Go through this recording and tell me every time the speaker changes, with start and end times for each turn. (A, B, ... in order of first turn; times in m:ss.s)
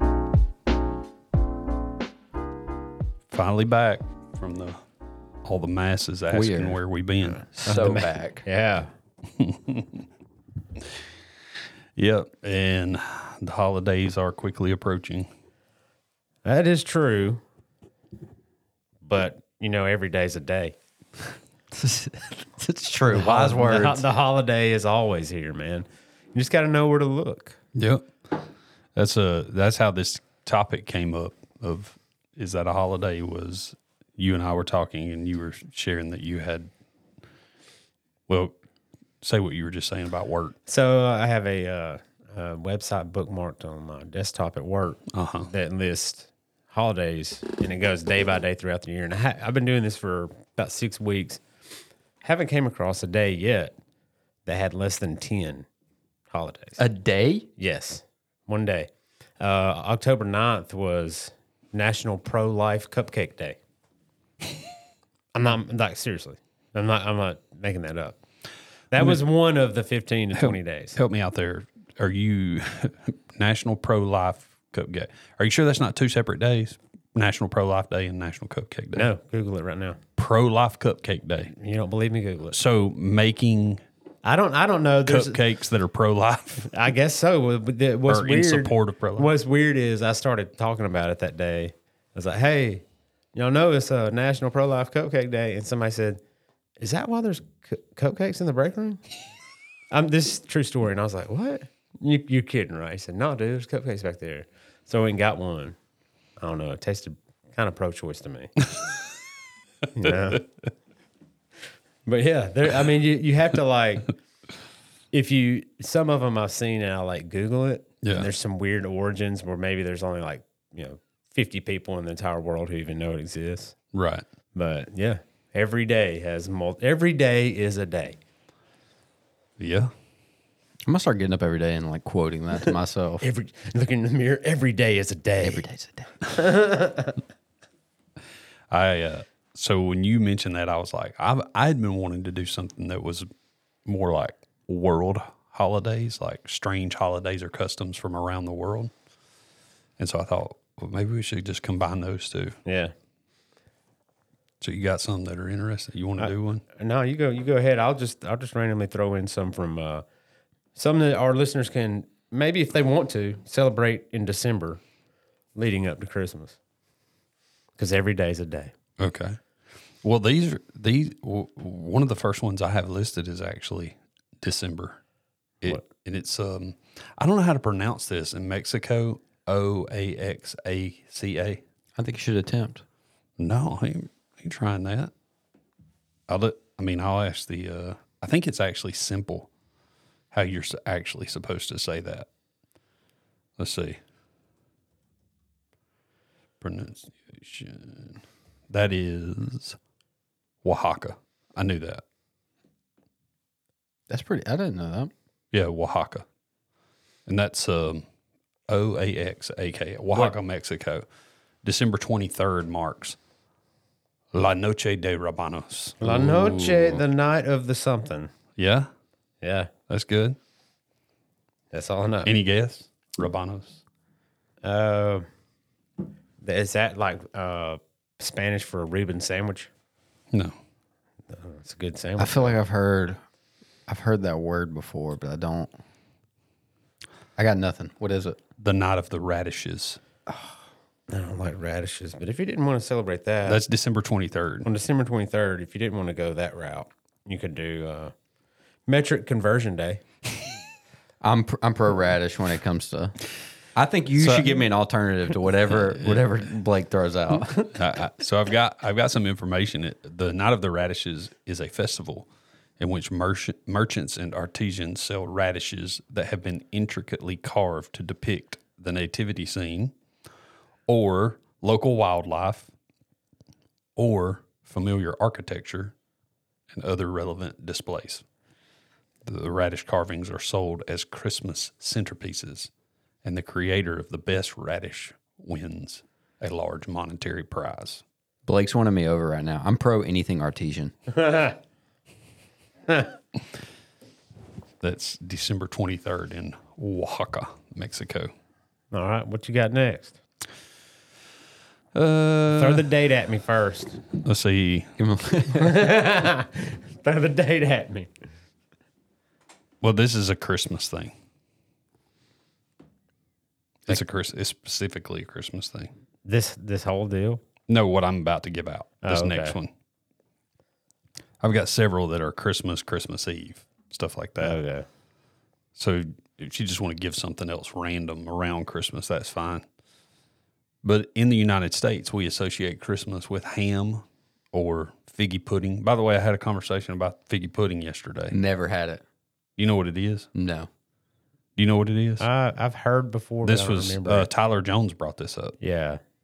0:03.3-0:04.8 A
0:05.4-0:07.9 A
0:06.3-0:06.8 B
0:07.5-0:08.4 B
0:07.6-0:08.9 C
0:09.4-0:10.0 A
0:12.0-0:15.3 A
0:16.4-0:17.4 C
0:19.0-0:20.8 C
0:21.7-0:24.0 B
0:23.1-0:27.6 C
0:27.8-0:28.4 A
0:29.0-0:36.7 A
0:38.3-0:38.6 A
0:39.2-0:40.6 A
0:40.7-0:51.4 C
0:45.1-0:45.5 A
0:52.2-0:53.8 C
0:54.5-0:55.7 C
0:56.3-0:56.8 C
0:56.8-0:57.5 B
0:57.6-1:03.6 C
1:05.3-1:08.2 C
1:08.9-1:11.0 C
1:10.4-1:19.1 A
1:18.9-1:20.0 C
1:20.2-1:21.5 A
1:21.5-1:22.6 C
1:22.5-1:23.8 A
1:24.2-1:25.4 C
1:25.1-1:26.7 A
1:26.6-1:36.2 C
1:28.1-1:29.3 A
1:36.8-1:39.0 C
1:39.9-1:45.8 C
1:46.4-1:48.6 C
1:49.9-1:50.5 C
1:52.1-1:54.1 C
1:55.1-2:03.8 C
1:58.0-1:58.3 A
2:03.9-2:04.3 A
2:04.5-2:08.2 C
2:09.6-2:09.9 A
2:10.9-2:13.2 B
2:13.2-2:15.6 C
2:15.4-2:16.1 B
2:16.3-2:17.2 C
2:18.7-2:23.3 A
2:23.9-2:28.9 A
2:30.0-2:32.6 A
2:32.6-2:32.9 C
2:34.6-2:36.6 A
2:36.2-2:40.0 C
2:40.8-2:44.8 C
2:45.6-2:46.6 C
2:47.8-2:48.7 C
2:49.0-2:49.4 A
2:50.0-2:55.0 A
2:55.6-3:01.6 A
3:02.0-3:02.8 B
3:03.4-3:05.1 A
3:06.3-3:09.5 A
3:10.3-3:12.3 A
3:13.6-3:14.0 A
3:16.6-3:19.8 A
3:20.6-3:22.0 A
3:24.1-3:25.1 B
3:25.5-3:26.2 A
3:27.3-3:28.0 A
3:28.7-3:31.1 A
3:31.6-3:33.2 A
3:34.3-3:37.0 A
3:36.0-3:38.3 C
3:38.6-3:38.9 A
3:39.4-3:39.7 C
3:39.9-3:40.4 A
3:41.7-3:42.3 C
3:42.2-3:43.8 A
3:44.6-3:45.3 C
3:46.4-3:49.7 C
3:51.3-3:52.6 C
3:52.2-3:53.2 B
3:53.9-3:55.7 B
3:57.4-3:58.4 B
3:58.6-4:00.0 A
4:01.1-4:03.6 C
4:03.5-4:04.7 A
4:04.6-4:08.1 C
4:08.9-4:10.0 C
4:11.2-4:13.2 B
4:13.8-4:17.7 B
4:14.2-4:14.6 A
4:17.7-4:22.3 A
4:22.8-4:29.9 A
4:30.9-4:32.7 A
4:34.0-4:35.9 A
4:36.7-4:38.2 A
4:39.3-4:42.7 A
4:43.2-4:48.0 A
4:48.5-4:50.9 B
4:51.1-4:51.6 C
4:54.8-4:58.3 A
4:58.9-5:00.2 C
5:01.9-5:02.8 A
5:02.5-5:04.0 C
5:04.2-5:04.9 A
5:05.0-5:05.9 B
5:05.6-5:08.1 C
5:09.8-5:11.1 A
5:13.9-5:15.9 A
5:16.2-5:17.4 C
5:17.7-5:19.7 A
5:19.0-5:19.6 C
5:21.4-5:24.6 A
5:24.4-5:24.9 C
5:25.8-5:29.6 A
5:30.8-5:38.4 A
5:38.3-5:39.0 B
5:39.6-5:40.3 A
5:40.4-5:40.7 B
5:41.6-5:42.2 A
5:42.2-5:44.3 C
5:43.4-5:45.6 A
5:45.6-5:46.0 C